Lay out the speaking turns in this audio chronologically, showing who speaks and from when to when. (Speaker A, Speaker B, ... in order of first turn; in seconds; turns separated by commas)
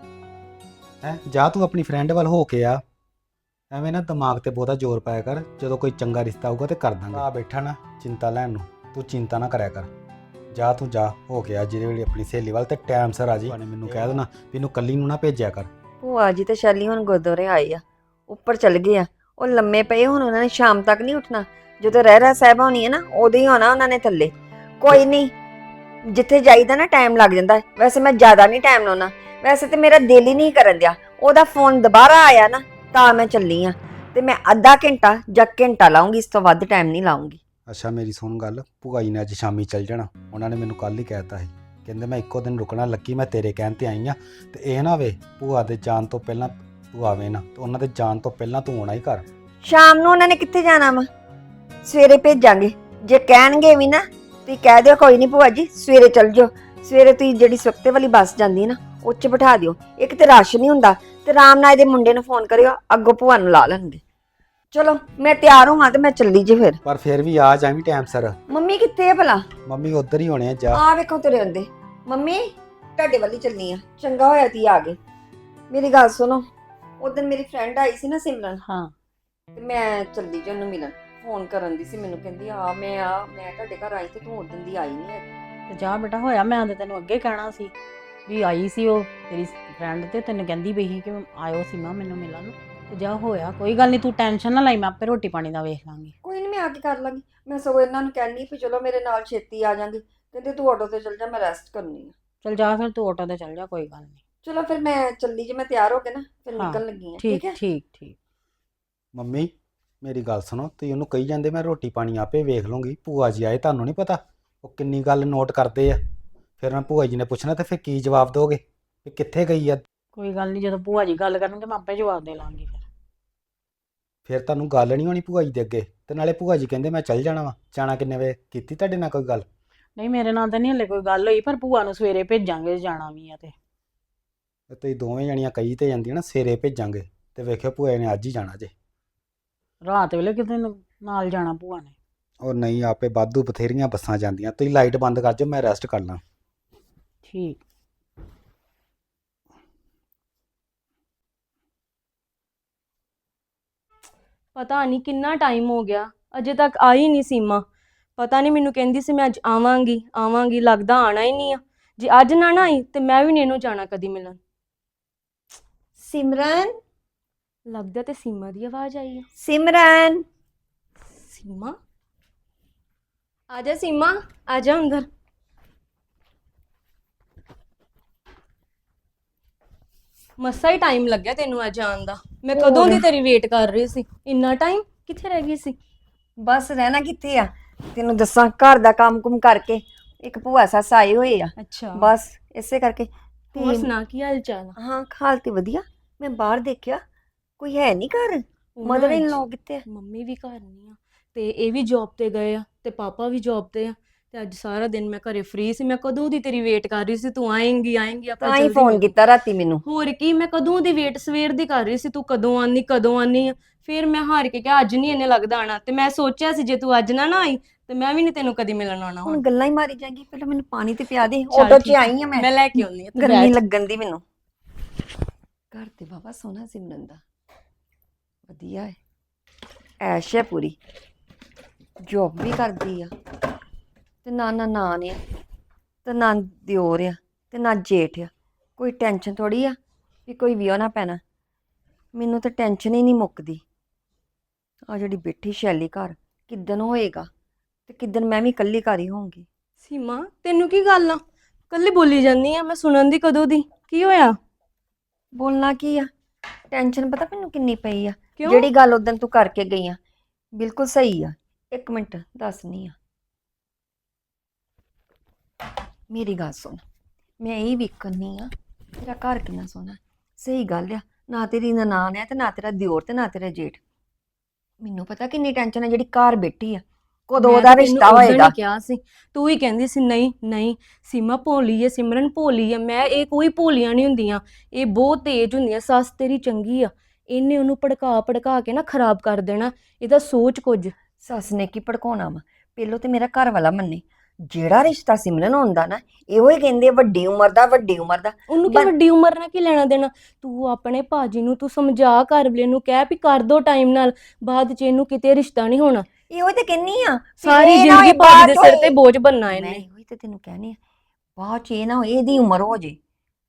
Speaker A: 1.0-2.8, Speaker A: 3.7-9.9, Speaker A: 10.5-15.7, Speaker B: 16.0-25.3, Speaker B: 26.1-37.4, Speaker A: 37.7-49.3, Speaker B: 49.6-51.1, Speaker B: 51.9-64.0, Speaker B: 64.7-66.8, Speaker A: 66.8-68.4, Speaker B: 68.5-69.4, Speaker A: 69.7-70.8, Speaker B: 70.7-72.4, Speaker B: 73.0-75.0, Speaker B: 75.7-76.5, Speaker B: 77.0-78.6, Speaker C: 78.7-78.9, Speaker B: 79.6-85.3, Speaker C: 85.7-87.7, Speaker C: 88.3-96.1, Speaker B: 96.2-102.1, Speaker C: 102.4-104.2, Speaker B: 104.4-107.6, Speaker C: 106.5-108.2, Speaker A: 109.2-109.5, Speaker A: 110.0-116.0, Speaker A: 116.6-119.8, Speaker C: 120.1-122.8, Speaker A: 124.3-129.5, Speaker C: 130.0-133.5, Speaker A: 134.7-138.7, Speaker C: 139.8-141.9, Speaker A: 142.4-146.2, Speaker C: 147.2-147.6, Speaker D: 154.6-157.7, Speaker D: 158.2-164.4, Speaker B: 166.0-166.7, Speaker D: 167.7-169.3, Speaker B: 169.4-170.2, Speaker D: 171.1-171.8, Speaker D: 173.5-175.1, Speaker D: 180.4-185.8, Speaker B: 182.5-183.1, Speaker B: 186.4-193.9, Speaker D: 191.6-192.1, Speaker D: 193.6-194.7, Speaker B: 194.8-197.0, Speaker B: 197.6-199.8, Speaker D: 198.8-209.1, Speaker B: 208.4-209.8, Speaker D: 209.8-219.4, Speaker B: 219.2-222.6, Speaker D: 221.5-223.6, Speaker B: 223.2-224.2, Speaker B: 225.7-227.2, Speaker B: 228.5-229.0, Speaker B: 230.0-230.8, Speaker B: 232.1-233.1, Speaker B: 234.2-235.2, Speaker B: 236.1-241.2, Speaker B: 242.2-243.6, Speaker B: 244.9-247.3, Speaker B: 247.9-249.5, Speaker D: 249.8-254.3, Speaker B: 255.3-256.1, Speaker B: 256.7-260.0, Speaker D: 258.4-258.7, Speaker B: 260.6-262.9, Speaker B: 266.1-266.8, Speaker B: 267.4-268.5, Speaker B: 269.0-273.8, Speaker B: 274.8-278.5, Speaker D: 277.4-290.9, Speaker B: 291.2-298.9, Speaker D: 298.5-306.1, Speaker B: 306.3-308.9, Speaker D: 307.4-309.8, Speaker B: 309.5-310.8, Speaker B: 311.4-313.0